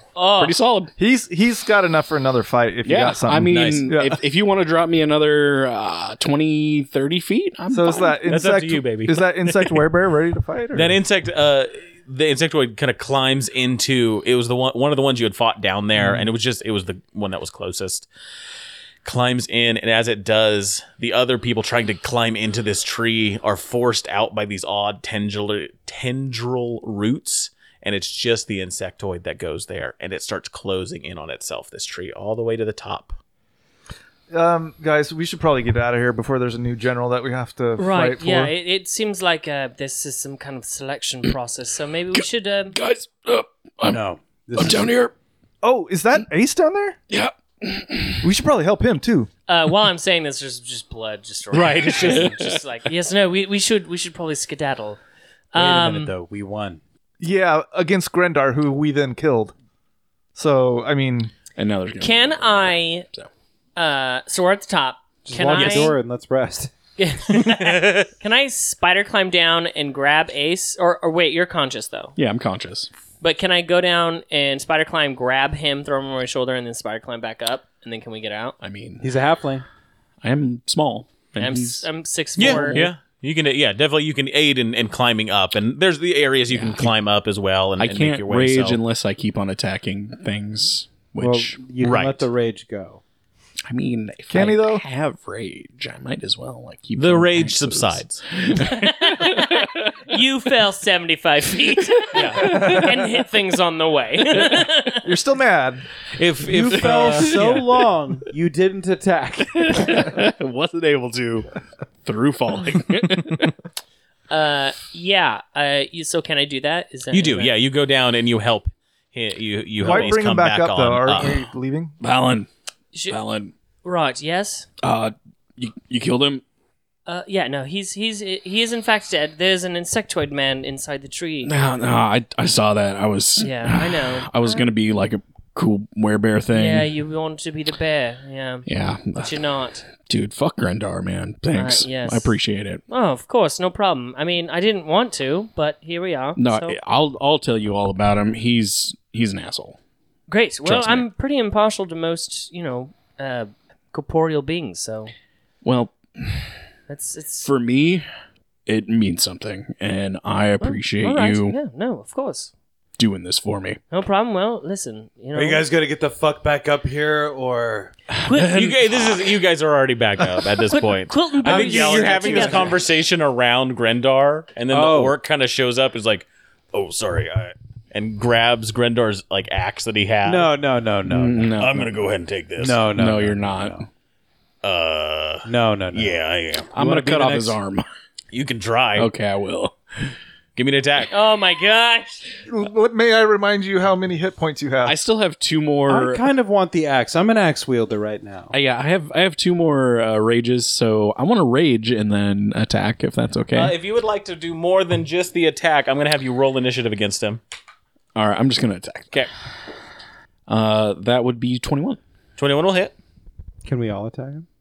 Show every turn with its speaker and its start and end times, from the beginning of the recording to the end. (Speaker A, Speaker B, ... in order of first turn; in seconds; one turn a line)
Speaker A: 0.1-0.6
Speaker B: 0.4-0.9
Speaker C: 1.0-4.2
Speaker B: 2.8-8.3
Speaker D: 3.5-3.9
Speaker C: 7.7-11.0
Speaker D: 8.3-9.8
Speaker D: 10.7-18.1
Speaker D: 19.0-33.2
Speaker C: 34.3-38.5
Speaker A: 37.8-42.8
Speaker B: 42.1-44.0
Speaker E: 43.9-44.9
Speaker B: 44.6-45.1
Speaker C: 45.6-47.0
Speaker B: 47.1-48.2
Speaker C: 48.2-49.3
Speaker A: 49.5-55.0
Speaker D: 51.5-52.3
Speaker B: 52.0-52.6
Speaker A: 55.5-56.1
Speaker E: 55.5-56.8
Speaker C: 57.2-59.5
Speaker C: 60.4-61.3
Speaker B: 61.6-63.3
Speaker A: 62.0-63.1
Speaker A: 63.8-66.0
Speaker E: 65.3-66.7
Speaker D: 65.5-65.9
Speaker A: 67.0-72.1
Speaker D: 67.3-68.1
Speaker B: 72.2-72.9
Speaker A: 73.2-78.6
Speaker B: 78.6-79.1
Speaker E: 79.0-79.7
Speaker B: 80.2-81.9
Speaker A: 81.4-82.9
Speaker D: 82.4-88.8
Speaker B: 82.4-82.9
Speaker B: 86.5-86.9
Speaker B: 87.8-91.6
Speaker E: 91.2-93.0
Speaker D: 91.8-92.3
Speaker B: 93.7-99.8
Speaker C: 94.3-94.8
Speaker D: 97.0-98.2
Speaker A: 98.6-105.1
Speaker D: 102.1-102.7
Speaker B: 102.3-103.0
Speaker C: 105.0-105.9
Speaker D: 106.2-107.6
Speaker E: 106.4-110.1
Speaker B: 106.9-107.5
Speaker B: 109.6-111.5
Speaker B: 112.0-113.5
Speaker A: 114.3-117.5
Speaker D: 117.1-121.4
Speaker C: 119.8-122.0
Speaker B: 121.2-121.5
Speaker B: 122.0-122.5
Speaker A: 122.9-123.2
Speaker B: 123.1-123.5
Speaker A: 123.8-124.7
Speaker B: 124.8-126.4
Speaker A: 127.1-131.5
Speaker B: 131.4-136.9
Speaker A: 133.4-134.7
Speaker A: 136.5-139.9
Speaker B: 138.7-139.3
Speaker B: 139.9-142.8
Speaker A: 141.5-142.3
Speaker A: 142.9-146.8
Speaker B: 146.4-149.8
Speaker A: 150.3-155.1
Speaker B: 150.7-151.0
Speaker B: 155.6-156.6
Speaker A: 156.9-157.5
Speaker B: 157.4-158.1
Speaker B: 158.7-161.6
Speaker A: 160.6-162.5
Speaker B: 163.0-163.8
Speaker A: 163.9-165.6
Speaker E: 165.3-168.0
Speaker B: 168.2-169.2
Speaker A: 168.3-168.7
Speaker D: 168.5-180.5
Speaker A: 170.7-172.8
Speaker E: 171.4-172.8
Speaker E: 174.7-175.2
Speaker E: 180.2-181.7
Speaker B: 181.1-181.9
Speaker D: 181.6-182.8
Speaker E: 182.6-183.8
Speaker B: 182.9-183.9
Speaker D: 184.6-186.7
Speaker E: 185.4-186.2
Speaker E: 186.7-187.6
Speaker B: 186.7-187.9
Speaker D: 188.3-189.1
Speaker B: 189.0-190.2
Speaker D: 190.6-191.1
Speaker A: 191.1-192.2
Speaker C: 192.5-195.0
Speaker B: 194.8-196.2
Speaker E: 195.9-198.5
Speaker B: 198.5-203.8
Speaker D: 203.5-207.4
Speaker B: 208.2-209.2
Speaker B: 210.5-212.0
Speaker D: 212.4-212.9
Speaker E: 213.6-214.5